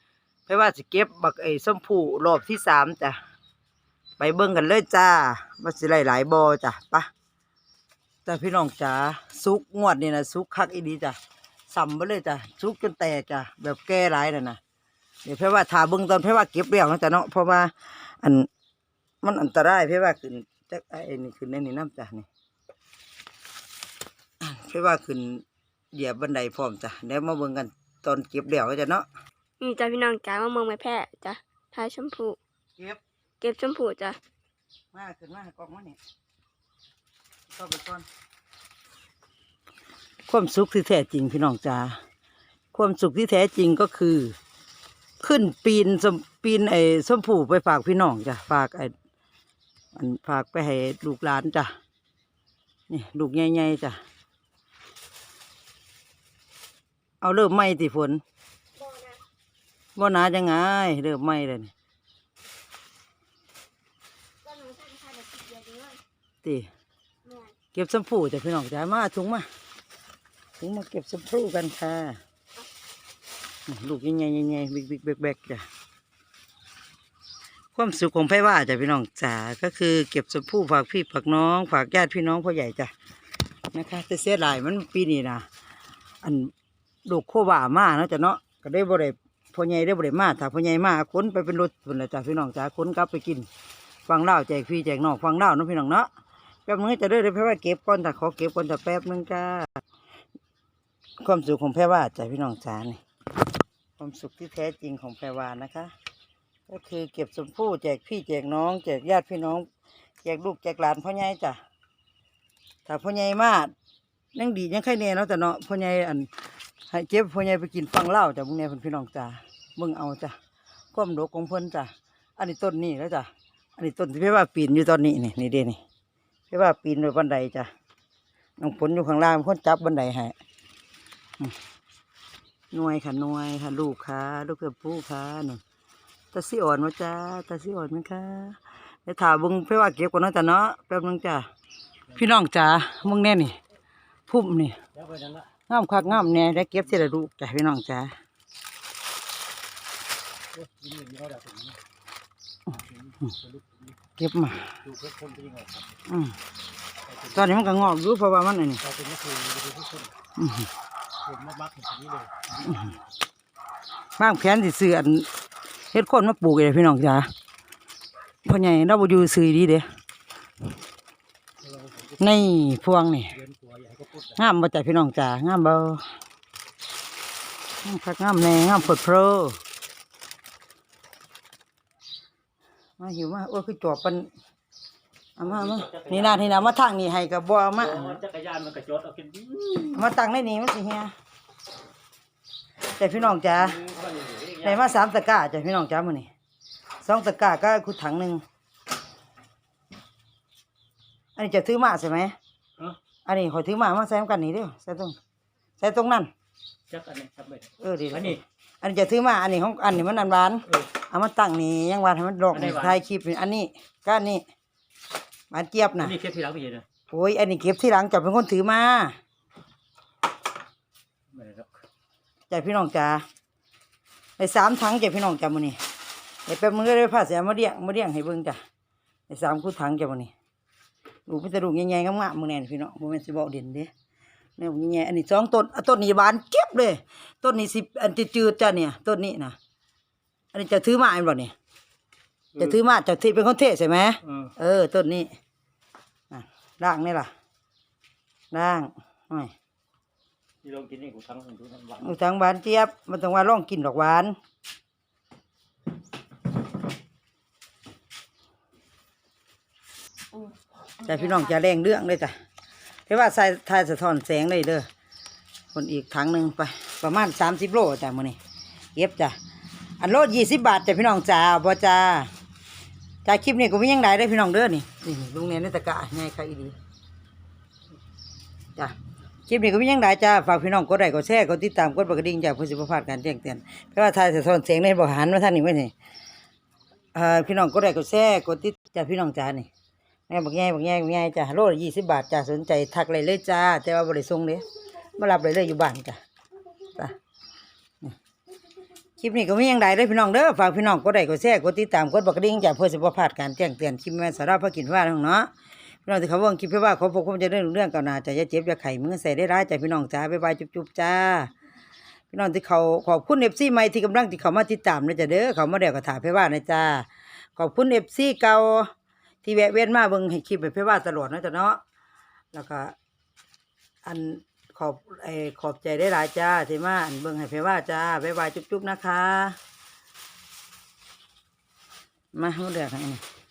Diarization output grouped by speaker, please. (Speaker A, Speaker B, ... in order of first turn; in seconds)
Speaker A: 0.5-3.2, 4.2-7.1, 8.2-11.2, 11.7-14.6, 15.2-18.5, 19.2-22.3, 24.4-29.1, 34.9-36.0, 37.5-38.1, 40.3-42.0, 42.7-44.4, 45.2-48.9, 50.0-51.7, 52.9-54.0, 57.2-58.2, 60.0-61.7, 66.4-66.7, 67.7-69.5, 70.6-72.2, 73.7-75.7, 77.8-82.9, 83.7-85.5, 86.2-86.5, 87.1-93.5, 94.1-96.1, 96.7-99.8, 101.2-103.0, 104.0-105.9, 106.7-109.7, 110.2-111.6, 112.9-113.7, 114.3-116.3, 116.9-120.3, 120.9-125.8, 126.5-127.7, 128.6-130.4, 132.7-135.6, 136.3-141.5, 142.1-143.6, 144.3-144.8, 145.7-148.2, 154.2-154.8, 156.1-156.4, 157.3-158.8, 160.4-160.7, 164.2-165.3, 165.9-167.3, 168.4-169.9, 172.2-173.4, 174.3-176.1, 177.8-179.6, 183.0-184.3, 185.4-188.2, 189.8-191.1, 193.0-193.8, 194.6-196.3, 197.0-198.4, 201.4-202.3, 203.3-205.2, 205.8-206.3, 207.8-214.4, 215.5-216.2, 217.1-219.2, 222.5-223.2, 224.4-225.8, 226.5-228.6, 229.3-230.3, 231.3-233.9, 234.6-239.6, 240.5-241.5, 242.6-245.3, 246.3-247.3, 248.5-249.5, 252.0-254.4, 261.0-262.4, 263.1-264.9, 265.7-268.4, 268.9-269.4, 270.0-272.3, 273.2-276.8, 279.5-285.9, 287.1-289.7, 290.3-296.2, 299.2-305.5, 306.1-311.5, 312.3-318.9, 319.4-321.8, 322.5-322.9, 324.1-329.6, 332.3-333.2
Speaker B: 29.6-32.4, 33.4-34.2, 58.8-59.2, 64.5-66.0
Speaker C: 145.0-145.5, 150.5-151.8, 153.3-153.8, 154.8-155.9, 158.8-160.1, 161.2-162.5, 171.7-172.2, 173.4-174.3, 185.7-186.7, 187.8-189.9, 193.7-194.8, 206.9-207.7, 212.5-213.0, 216.0-216.8, 221.3-221.7, 250.6-252.1